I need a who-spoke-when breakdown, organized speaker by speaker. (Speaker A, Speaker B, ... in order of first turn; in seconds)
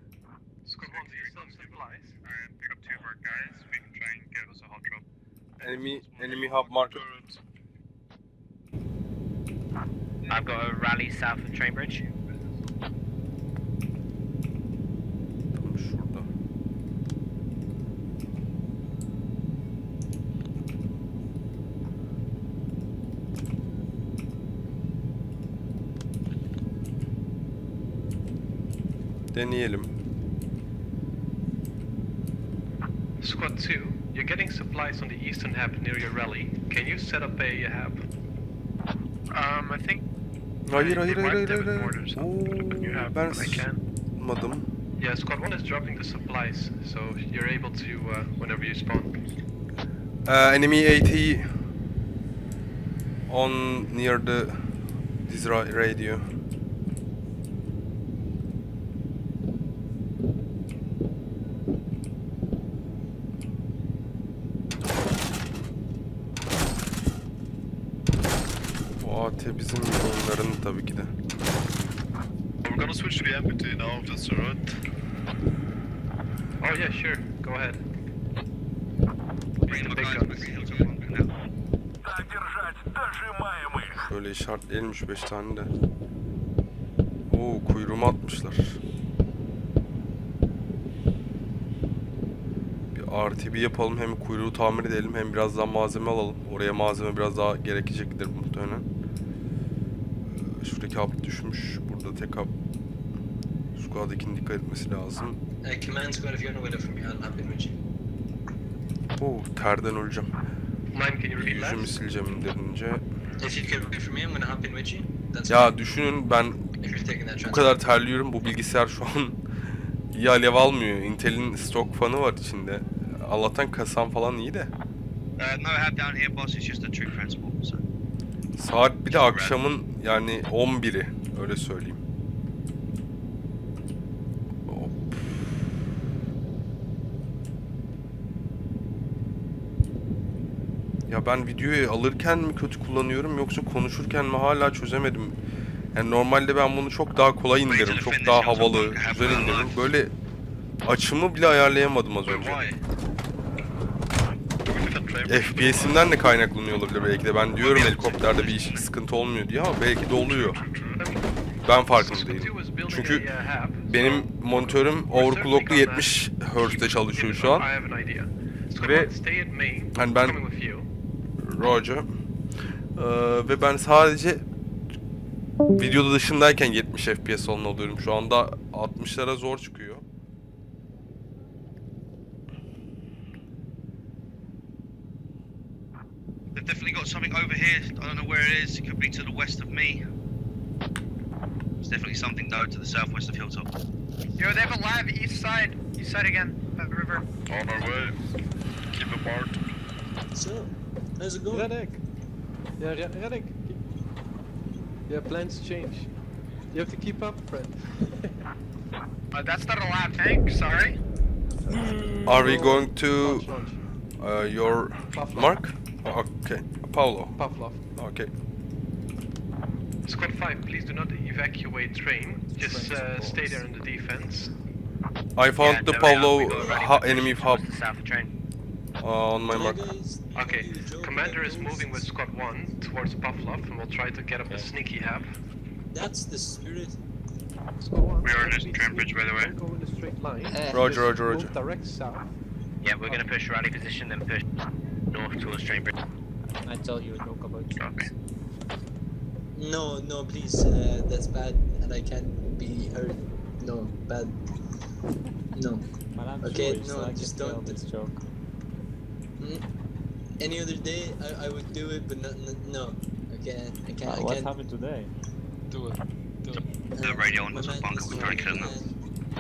Speaker A: 0.7-2.1, 33.2-38.0, 45.0-49.2, 76.6-77.8, 79.7-80.7, 110.9-112.0, 161.0-161.3, 161.9-170.9, 201.5-202.0, 202.8-203.8, 205.1-206.1, 206.7-208.3, 211.7-213.8, 215.1-215.6, 217.4-217.8, 220.0-224.5, 230.3-235.3, 237.8-242.3
Speaker B: 0.8-5.0, 5.6-6.4, 238.2-239.5
Speaker C: 5.6-7.1, 15.6-16.3, 29.3-29.9, 40.7-44.7, 50.2-51.5, 53.3-54.6, 55.3-56.2, 69.0-71.1, 83.9-85.7, 87.3-88.8, 92.9-98.9, 100.2-102.5, 103.8-105.4, 109.2-110.3, 111.4-113.0, 115.5-116.7, 117.4-119.4, 120.1-124.7, 128.6-132.0, 134.7-135.5, 141.1-145.4, 145.9-150.1, 150.8-152.7, 155.3-160.6, 161.6-163.3, 163.9-167.7, 168.8-169.1, 169.9-170.4, 171.4-172.1, 173.0-174.4, 175.8-180.0, 212.2-213.6, 214.2-217.4, 217.9-218.3, 225.4-227.7, 229.0-229.8, 240.7-241.6
Speaker D: 6.2-7.4, 72.6-74.8, 152.3-152.7, 154.6-156.2, 160.1-161.0, 197.5-198.2, 198.9-199.6
Speaker E: 10.3-12.1, 147.8-149.5, 225.6-228.3, 242.8-244.4, 245.1-245.9, 266.5-268.8
Speaker F: 39.3-40.0, 40.7-43.8, 194.4-197.2, 209.3-211.0
Speaker G: 79.8-80.7, 125.6-127.7, 158.1-158.5, 186.7-188.8, 192.1-193.4
Speaker H: 105.6-107.8, 113.4-115.8, 116.8-117.8, 200.3-201.7, 229.5-232.1, 235.9-237.0, 249.5-254.4, 255.6-255.9, 256.4-257.8, 259.4-259.6, 260.4-264.5, 265.7-268.9
Speaker I: 222.6-223.6, 246.6-247.8, 256.1-258.2, 264.0-265.1